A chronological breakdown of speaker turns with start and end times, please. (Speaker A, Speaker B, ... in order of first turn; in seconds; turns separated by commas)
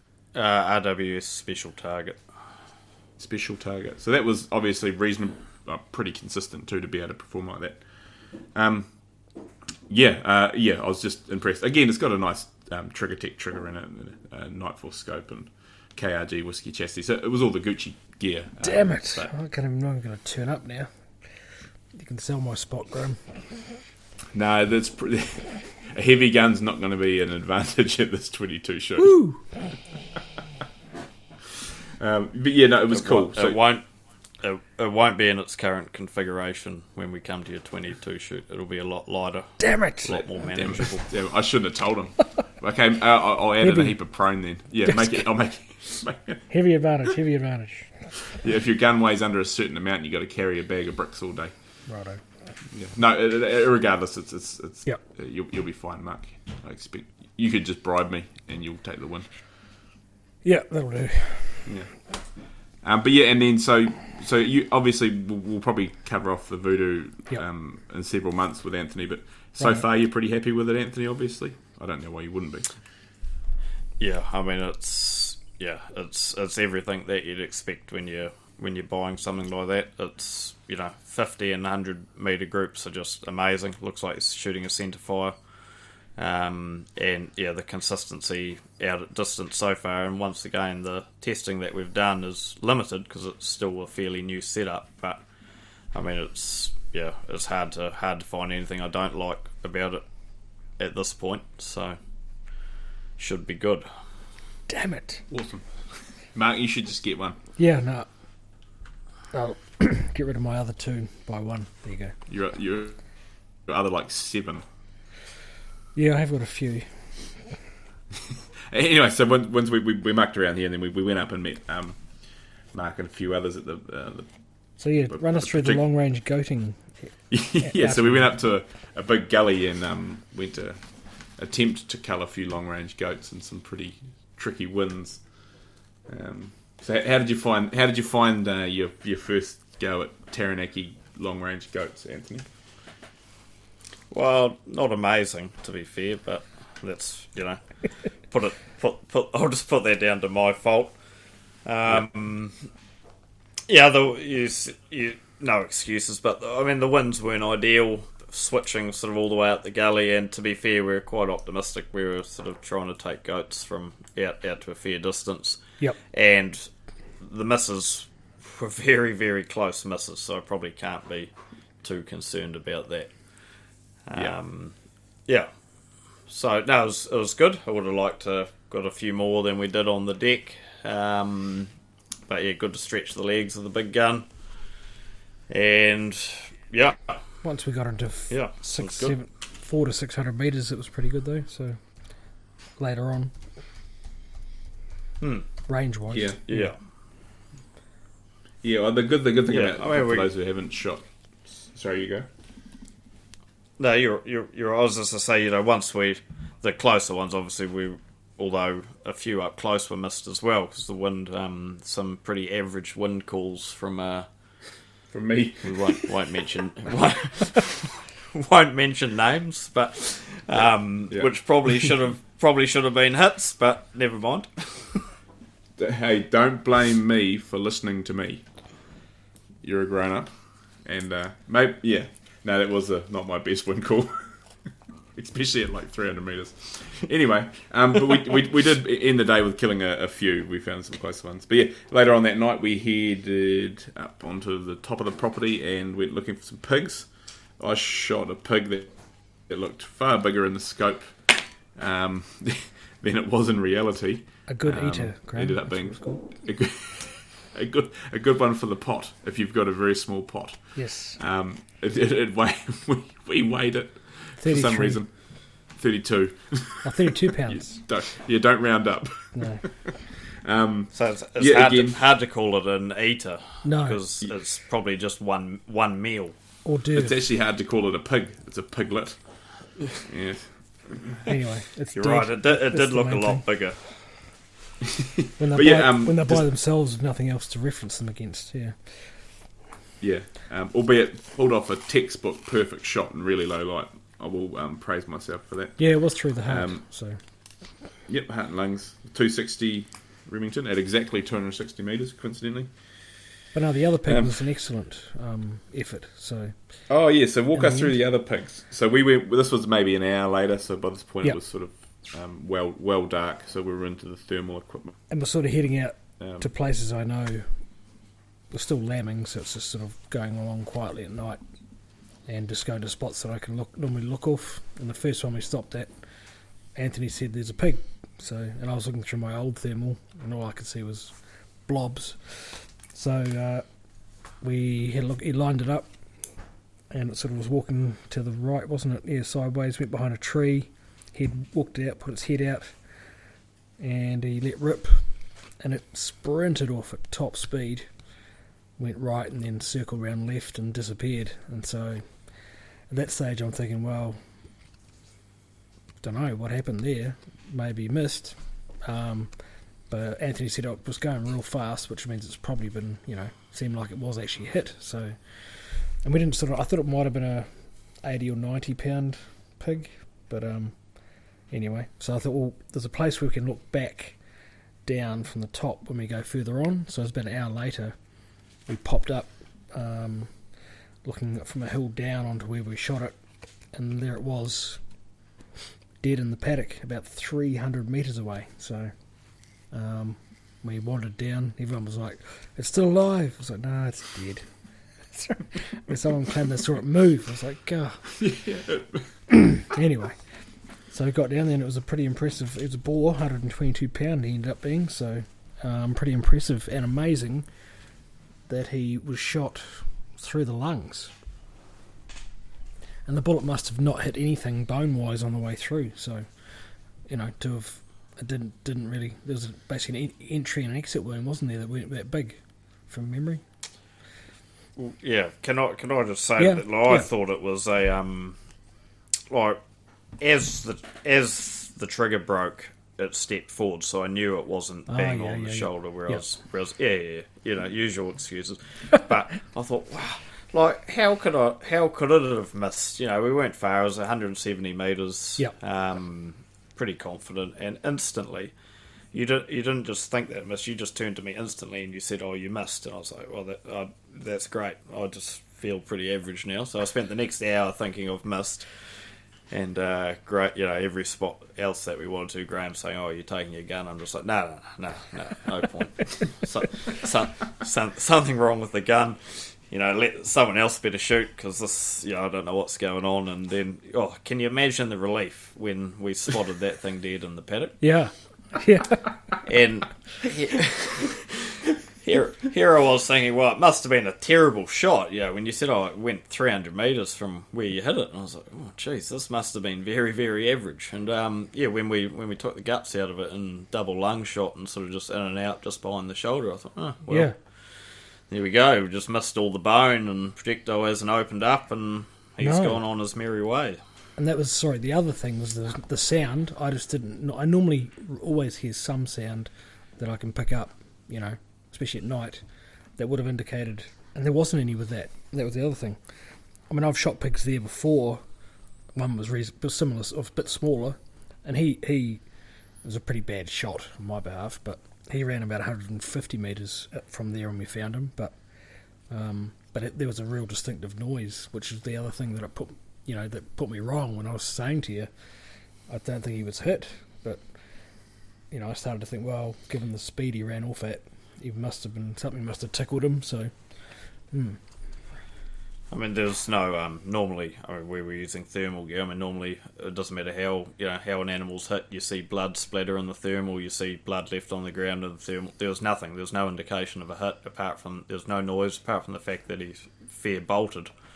Speaker A: 0.3-2.3, Speaker B: 3.2-9.3, Speaker B: 9.9-19.3, Speaker C: 18.6-23.8, Speaker B: 24.3-29.5, Speaker C: 29.0-29.5, Speaker B: 32.0-33.6, Speaker A: 32.9-41.1, Speaker C: 39.6-40.2, Speaker B: 40.4-46.5, Speaker C: 43.6-44.2, Speaker C: 44.8-45.2, Speaker C: 46.5-48.2, Speaker B: 48.3-51.9, Speaker C: 51.9-52.2, Speaker B: 52.7-59.3, Speaker C: 60.4-61.7, Speaker B: 61.6-72.8, Speaker C: 69.6-69.8, Speaker A: 74.0-85.3, Speaker A: 86.2-95.2, Speaker A: 95.9-100.0, Speaker A: 100.7-102.0, Speaker A: 103.2-103.9, Speaker C: 104.7-105.2, Speaker B: 105.3-107.4, Speaker C: 107.5-108.6, Speaker C: 109.3-112.2, Speaker B: 112.3-114.6, Speaker C: 115.9-117.5, Speaker B: 118.7-125.8, Speaker C: 124.8-128.3, Speaker B: 127.3-142.5, Speaker A: 144.1-150.9, Speaker A: 151.6-152.7, Speaker A: 153.7-171.3, Speaker A: 171.8-174.7, Speaker A: 176.2-181.7, Speaker A: 182.3-184.3, Speaker A: 185.5-187.2, Speaker C: 187.4-193.3, Speaker A: 188.3-189.2, Speaker A: 195.2-195.5, Speaker C: 195.7-196.7, Speaker B: 196.1-196.4, Speaker A: 196.5-196.8, Speaker B: 198.6-202.3, Speaker A: 199.5-200.3, Speaker A: 203.8-214.8, Speaker B: 215.1-216.1, Speaker A: 215.6-225.0, Speaker B: 220.5-221.3, Speaker B: 225.8-229.0, Speaker B: 229.6-272.0, Speaker C: 254.5-256.2, Speaker C: 260.7-261.2, Speaker C: 264.4-265.0, Speaker C: 266.8-267.8, Speaker C: 269.3-269.6, Speaker A: 270.9-276.3, Speaker C: 273.6-274.0, Speaker C: 276.6-277.2, Speaker B: 276.9-281.2, Speaker C: 281.2-283.4, Speaker A: 281.9-284.0, Speaker B: 285.2-286.5, Speaker C: 285.4-289.4, Speaker B: 290.0-296.9, Speaker C: 295.8-297.2, Speaker B: 298.1-303.3, Speaker C: 303.5-306.9, Speaker B: 304.1-304.4, Speaker B: 306.9-315.0, Speaker C: 307.5-307.9, Speaker C: 315.1-317.8, Speaker B: 316.2-316.5, Speaker C: 318.5-321.4, Speaker C: 322.1-343.2, Speaker C: 343.8-348.2, Speaker C: 348.8-354.2, Speaker C: 356.0-384.8, Speaker C: 386.0-398.3, Speaker B: 398.2-399.3, Speaker C: 399.3-407.6, Speaker C: 408.4-411.1, Speaker C: 413.1-423.4, Speaker A: 424.8-428.4, Speaker C: 426.4-427.1, Speaker A: 429.3-429.6, Speaker A: 430.2-448.5, Speaker C: 434.9-436.2, Speaker A: 449.1-477.8, Speaker C: 477.8-479.2, Speaker A: 479.4-503.8, Speaker C: 497.1-497.3, Speaker C: 502.4-502.8, Speaker C: 504.1-518.2, Speaker C: 518.9-544.6, Speaker A: 545.9-560.9